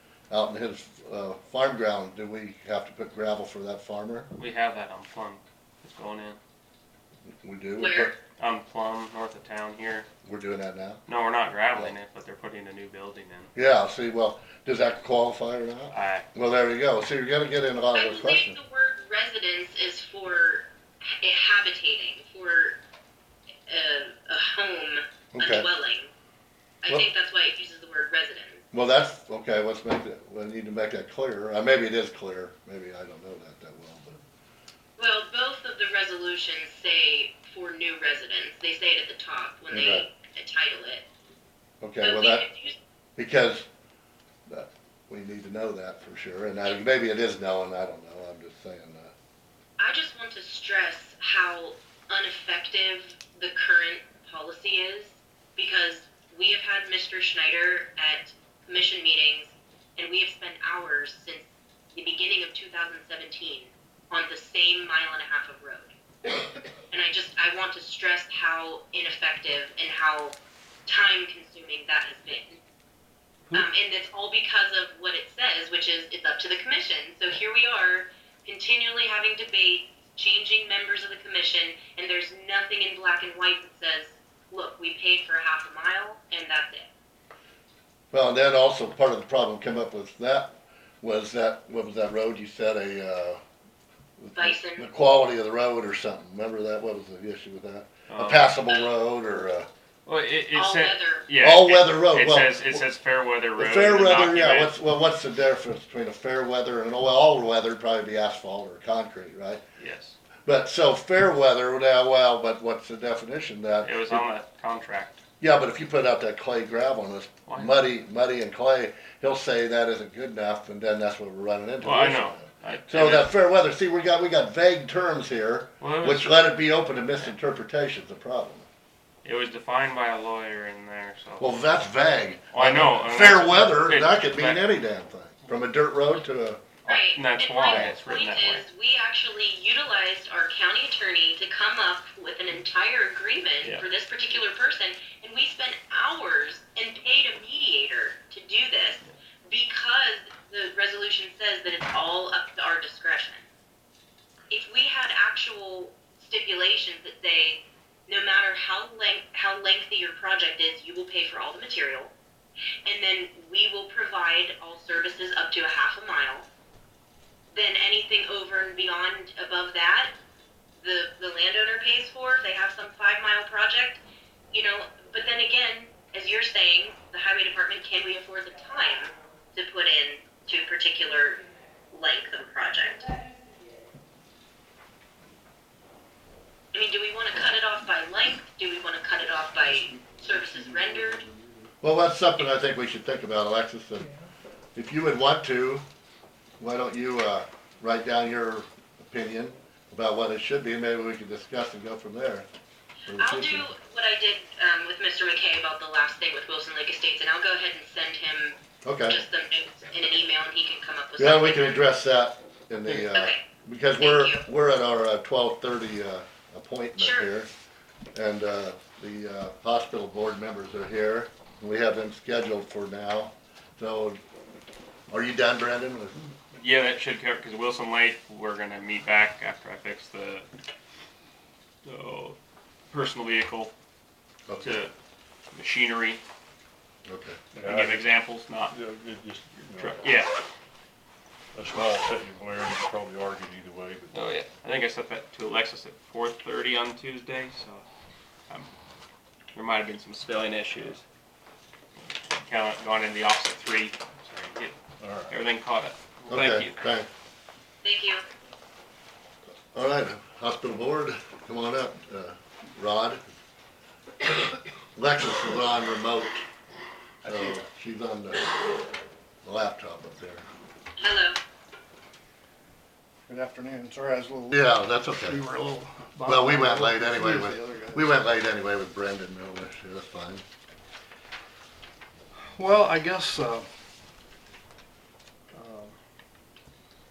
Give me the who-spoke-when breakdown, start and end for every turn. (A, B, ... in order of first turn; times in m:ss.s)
0:00.3-0:04.3 A
0:04.3-0:06.4 B
0:07.4-0:08.1 A
0:07.8-0:08.1 C
0:08.4-0:10.1 B
0:10.2-0:11.0 A
0:11.1-0:13.5 B
0:13.5-0:18.6 A
0:15.9-0:16.3 B
0:17.9-0:22.8 C
0:23.7-0:26.1 C
0:25.3-0:25.7 A
0:26.8-0:28.6 C
0:28.7-0:34.2 A
0:35.0-0:41.0 C
0:39.7-0:40.0 A
0:41.8-0:42.4 A
0:42.0-0:42.8 C
0:43.2-0:43.6 A
0:44.5-0:49.1 A
0:49.8-1:05.9 C
1:06.9-1:10.4 C
1:10.9-1:12.6 C
1:13.5-1:26.9 C
1:28.1-1:33.4 A
1:34.2-1:39.7 A
1:34.4-1:34.8 C
1:38.1-1:38.5 B
1:40.0-1:44.7 B
1:40.5-1:41.3 C
1:41.4-1:42.8 A
1:43.6-1:49.6 A
1:49.8-1:50.2 B
1:50.4-1:54.2 A
1:53.8-1:55.2 B
1:55.4-2:08.6 A
1:57.5-1:57.8 B
2:01.8-2:03.3 B
2:05.8-2:06.5 B
2:09.2-2:11.5 B
2:11.4-2:16.6 A
2:12.5-2:14.6 B
2:16.8-2:18.6 B
2:16.9-2:33.4 C
2:34.5-2:42.1 C
2:42.8-2:46.4 C
2:47.5-2:50.1 C
2:50.8-2:54.0 C
2:54.5-3:03.1 C
3:06.7-3:11.2 C
3:10.1-3:11.5 D
3:11.8-3:14.1 A
3:14.7-3:15.8 A
3:16.6-3:22.5 A
3:23.1-3:23.7 A
3:23.2-3:31.8 C
3:28.8-3:29.2 A
3:31.2-3:37.5 A
3:33.1-3:33.4 C
3:34.0-3:34.4 C
3:37.0-3:37.3 C
3:38.1-3:44.2 A
3:45.1-3:46.3 A
3:46.6-3:50.5 B
3:51.8-3:52.4 B
3:52.9-3:53.7 B
3:54.5-3:54.8 A
3:54.6-3:54.9 B
3:55.5-3:56.2 B
3:57.0-3:57.4 A
3:57.5-3:58.1 E
3:57.6-3:58.7 B
3:58.7-4:00.2 E
3:59.8-4:00.4 B
4:01.5-4:04.2 E
4:04.1-4:07.8 B
4:09.5-4:11.0 B
4:12.3-4:14.7 B
4:15.0-4:15.3 E
4:15.3-4:16.8 B
4:16.3-4:17.1 A
4:17.8-4:18.2 C
4:19.7-4:23.2 A
4:25.0-4:26.4 A
4:27.2-4:28.6 A
4:29.4-4:30.4 A
4:31.0-4:31.4 C
4:33.3-4:38.0 D
4:34.5-4:35.4 A
4:36.2-4:40.4 A
4:42.4-4:43.6 D
4:45.5-4:45.9 D